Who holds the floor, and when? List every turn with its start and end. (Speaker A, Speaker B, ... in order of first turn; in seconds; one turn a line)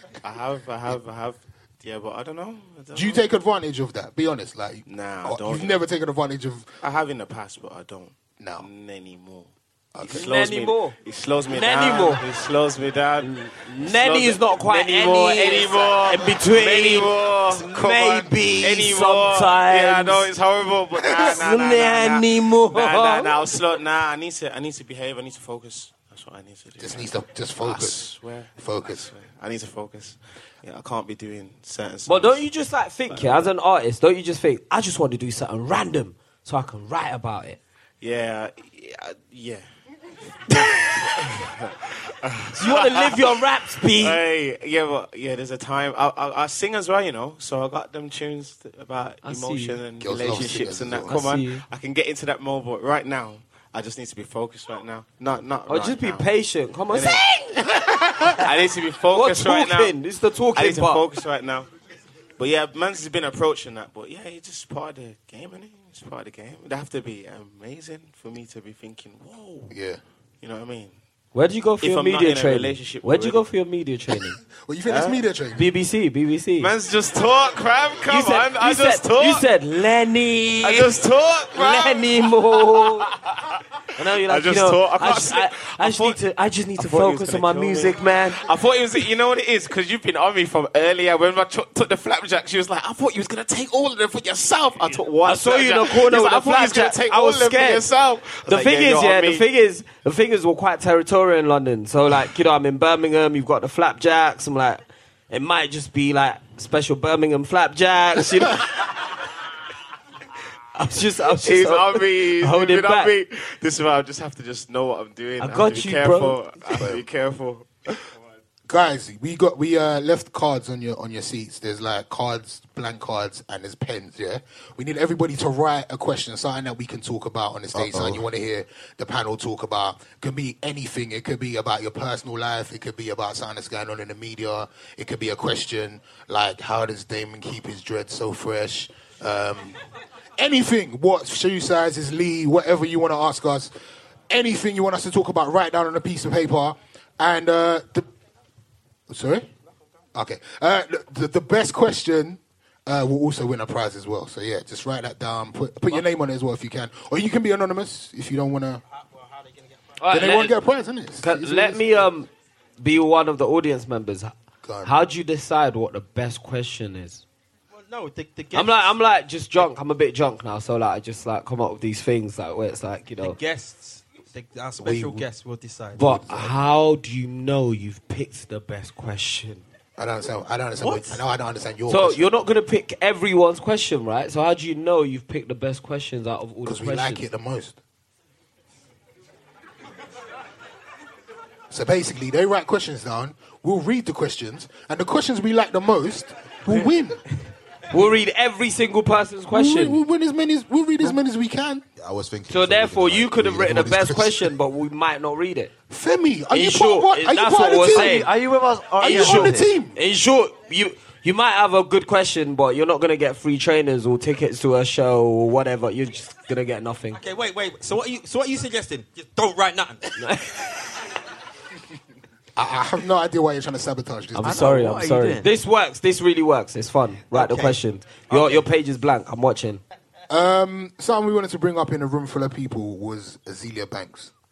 Speaker A: 0.2-3.2
Speaker B: 2.9-6.7
Speaker A: 4.8-5.8
Speaker A: 6.8-32.4
Speaker B: 8.4-8.7
Speaker B: 9.9-10.3
Speaker C: 10.1-12.2
Speaker C: 13.2-20.3
Speaker C: 21.1-23.4
Speaker B: 26.8-29.1
Speaker C: 32.0-37.6
Speaker A: 33.1-33.5
Speaker A: 38.0-39.6
Speaker A: 40.5-56.3
Speaker C: 40.6-41.1
Speaker C: 42.5-44.2
Speaker C: 49.2-49.8
Speaker B: 50.0-51.2
Speaker C: 51.1-51.6
Speaker C: 55.7-57.2
Speaker A: 56.9-57.3
Speaker B: 57.7-58.3
Speaker A: 58.2-60.0
Speaker C: 59.1-61.0
Speaker A: 60.5-61.7
Speaker A: 62.4-69.7
Speaker B: 69.7-70.0
Speaker A: 70.4-70.9
Speaker C: 71.3-74.4
Speaker A: 71.8-73.5
Speaker B: 74.6-75.6
Speaker A: 74.9-75.2
Speaker C: 75.5-76.7
Speaker A: 76.6-79.5
Speaker C: 78.1-81.0
Speaker A: 80.6-83.6
Speaker C: 81.5-83.1
Speaker C: 83.9-88.4
Speaker A: 84.1-86.2
Speaker A: 86.8-99.5
Speaker C: 95.2-97.8
Speaker C: 98.5-109.1
Speaker C: 110.7-113.1
Speaker A: 111.3-118.1
Speaker C: 115.4-116.4
Speaker B: 116.8-117.0
Speaker B: 118.7-139.8
Speaker D: 127.7-128.2
Speaker B: 140.4-143.7
Speaker B: 144.3-148.1
Speaker B: 149.1-149.5
Speaker B: 150.1-158.8
Speaker E: 158.9-159.8
Speaker C: 160.0-160.6
Speaker B: 160.1-162.1
Speaker C: 161.2-167.2
Speaker B: 164.6-164.9
Speaker E: 167.7-168.9
Speaker C: 168.5-173.4
Speaker E: 173.2-176.0
Speaker B: 174.8-175.2
Speaker B: 175.9-176.6
Speaker C: 175.9-179.6
Speaker B: 180.0-182.2
Speaker E: 180.8-181.2
Speaker C: 181.9-187.2
Speaker B: 186.6-187.8
Speaker B: 191.7-197.2
Speaker C: 197.9-200.0
Speaker B: 199.5-201.8
Speaker D: 202.0-204.5
Speaker C: 202.5-205.7
Speaker B: 205.9-208.3
Speaker C: 206.5-208.3
Speaker F: 207.7-209.7
Speaker B: 209.0-210.0
Speaker C: 209.0-217.2
Speaker E: 217.1-220.1
Speaker C: 220.2-220.7
Speaker B: 222.6-224.9
Speaker C: 224.3-229.8
Speaker F: 224.4-225.5
Speaker E: 227.3-227.8
Speaker E: 228.3-228.6
Speaker B: 230.3-234.3